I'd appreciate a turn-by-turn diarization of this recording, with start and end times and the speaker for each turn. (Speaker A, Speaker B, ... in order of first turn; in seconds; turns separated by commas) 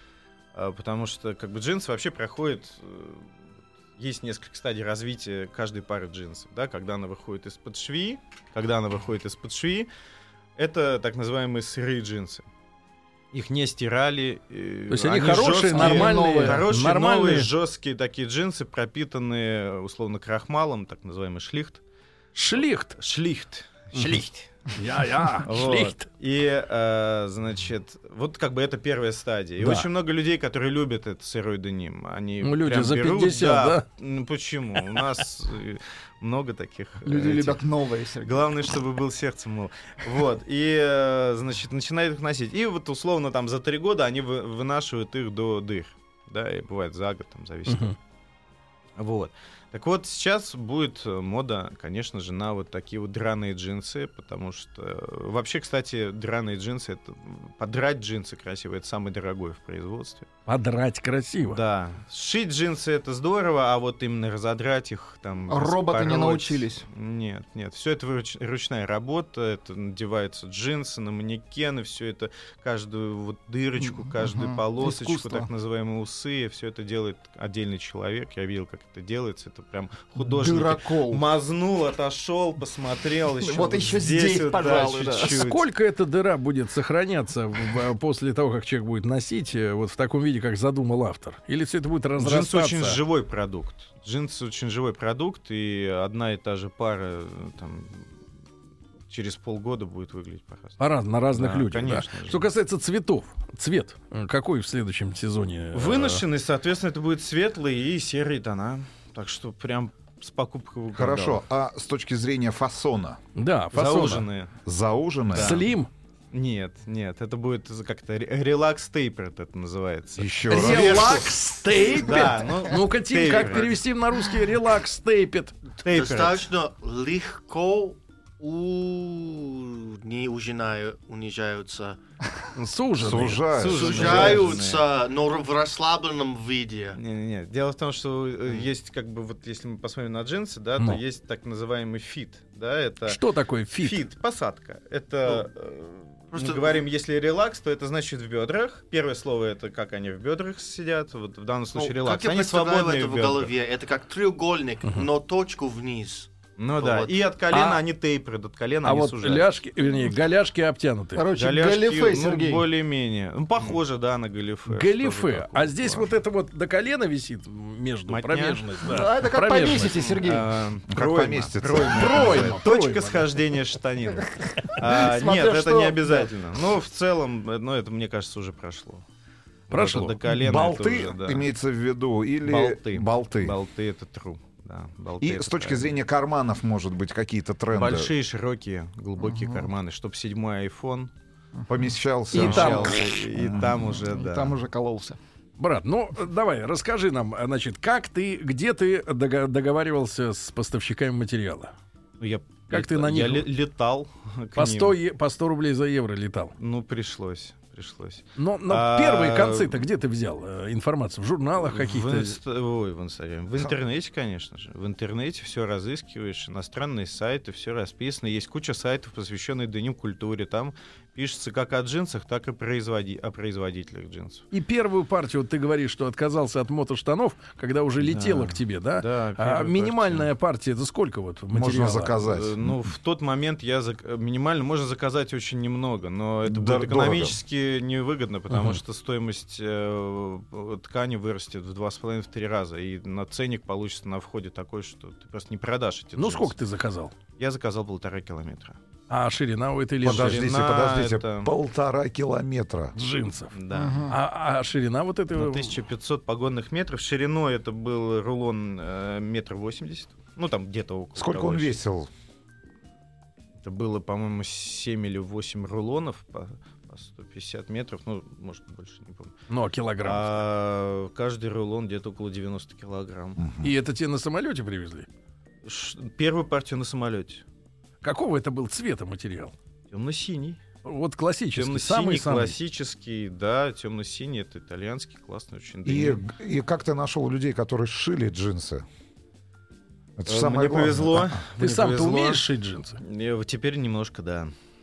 Speaker A: 0.5-9.9, Speaker A: 10.6-12.4, Speaker A: 13.3-21.8, Speaker B: 14.9-17.5, Speaker C: 15.7-16.6, Speaker B: 22.3-23.0, Speaker A: 22.6-24.5, Speaker B: 23.9-26.1, Speaker A: 25.4-37.6, Speaker B: 29.6-29.9, Speaker B: 32.4-33.8, Speaker C: 37.0-38.5, Speaker A: 38.2-48.0, Speaker B: 47.7-48.0, Speaker A: 49.0-60.3, Speaker B: 60.5-61.6, Speaker A: 61.5-85.7, Speaker C: 65.5-66.8, Speaker C: 73.9-75.5, Speaker C: 80.2-81.2, Speaker C: 83.4-85.4, Speaker B: 85.2-93.0, Speaker A: 92.2-98.1, Speaker A: 99.1-100.8, Speaker B: 100.8-106.2, Speaker A: 101.3-102.5, Speaker A: 105.7-111.4, Speaker D: 110.9-113.2, Speaker B: 113.3-114.2, Speaker A: 113.7-114.5, Speaker D: 114.6-115.6, Speaker A: 115.3-115.7, Speaker B: 115.3-115.9, Speaker A: 116.3-123.8, Speaker D: 120.2-121.2, Speaker B: 120.5-125.6, Speaker A: 125.8-126.5, Speaker E: 125.8-132.0, Speaker B: 132.6-134.2, Speaker D: 133.0-134.5, Speaker A: 133.5-134.8, Speaker E: 133.7-137.0, Speaker A: 136.9-153.5, Speaker B: 143.1-144.0, Speaker E: 146.3-146.8, Speaker E: 151.7-157.7, Speaker A: 156.6-159.5, Speaker B: 158.8-161.3, Speaker C: 161.1-162.7, Speaker A: 161.3-166.1, Speaker B: 164.7-170.1, Speaker A: 168.1-169.1, Speaker C: 168.8-170.5, Speaker A: 169.9-179.0, Speaker D: 170.9-172.6, Speaker B: 171.8-173.3, Speaker C: 174.4-176.3, Speaker A: 179.7-181.5, Speaker B: 179.7-180.2, Speaker D: 180.3-183.6, Speaker A: 182.4-185.9, Speaker D: 185.2-188.1, Speaker A: 187.7-191.1, Speaker C: 189.2-189.7, Speaker D: 191.7-193.7, Speaker A: 192.3-194.6, Speaker B: 192.3-193.1, Speaker C: 193.6-195.2, Speaker B: 195.6-201.7, Speaker A: 202.2-205.0, Speaker B: 202.7-203.5, Speaker B: 204.6-206.5, Speaker A: 206.6-209.8, Speaker B: 208.4-212.4, Speaker A: 211.6-224.4, Speaker B: 224.5-232.2, Speaker A: 228.0-230.3, Speaker D: 231.5-232.9, Speaker A: 232.1-246.5, Speaker D: 236.4-237.4, Speaker B: 238.5-238.8, Speaker B: 246.2-247.1, Speaker A: 247.4-248.8, Speaker B: 249.1-250.4, Speaker D: 250.0-252.9, Speaker A: 250.0-251.5, Speaker B: 252.9-253.5, Speaker A: 253.5-254.1, Speaker C: 253.7-254.2, Speaker B: 254.1-255.7, Speaker A: 255.3-261.8, Speaker D: 261.1-262.1, Speaker A: 263.6-269.4, Speaker B: 269.5-270.4, Speaker A: 270.0-273.4, Speaker D: 273.4-273.7, Speaker B: 273.6-275.1, Speaker A: 275.6-277.4, Speaker B: 278.0-279.5, Speaker A: 279.9-280.6, Speaker B: 280.8-282.6, Speaker A: 281.5-286.2, Speaker D: 285.8-288.8, Speaker D: 290.2-291.4, Speaker A: 290.2-292.4, Speaker B: 291.6-293.0, Speaker A: 293.0-294.5